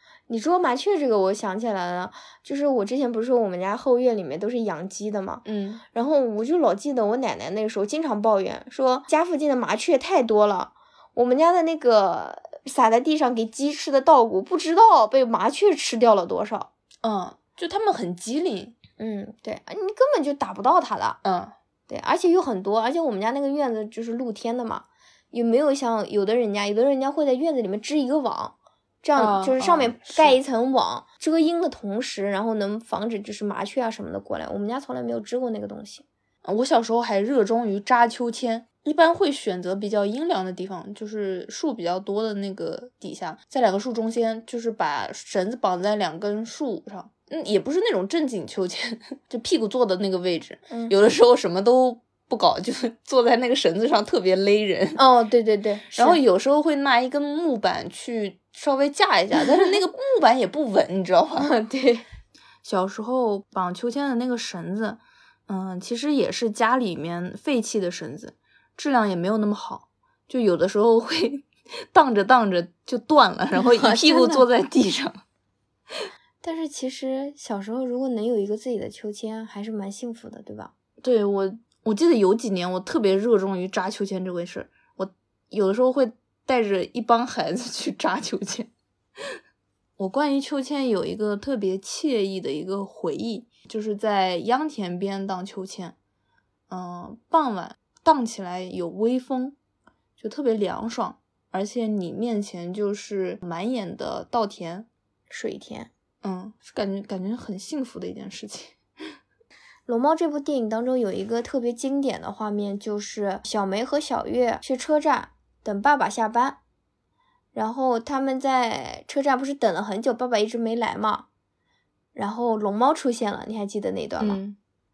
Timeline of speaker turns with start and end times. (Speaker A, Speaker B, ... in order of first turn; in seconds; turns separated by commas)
Speaker A: 0.3-16.7, Speaker B: 5.5-5.8, Speaker B: 17.0-18.8, Speaker A: 19.0-21.2, Speaker B: 21.2-21.5, Speaker A: 21.9-36.0, Speaker B: 29.2-30.4, Speaker B: 36.4-55.0, Speaker A: 50.7-50.9, Speaker A: 55.0-56.2, Speaker B: 55.9-61.5, Speaker A: 61.4-62.1, Speaker B: 62.6-75.2, Speaker A: 73.6-74.5, Speaker A: 76.4-80.7, Speaker B: 81.0-88.7, Speaker B: 90.0-96.0, Speaker B: 96.7-99.6, Speaker B: 100.2-104.9, Speaker A: 105.3-105.9, Speaker B: 106.2-108.8, Speaker A: 109.9-116.6, Speaker A: 117.5-121.3, Speaker A: 122.2-124.4, Speaker B: 124.2-124.6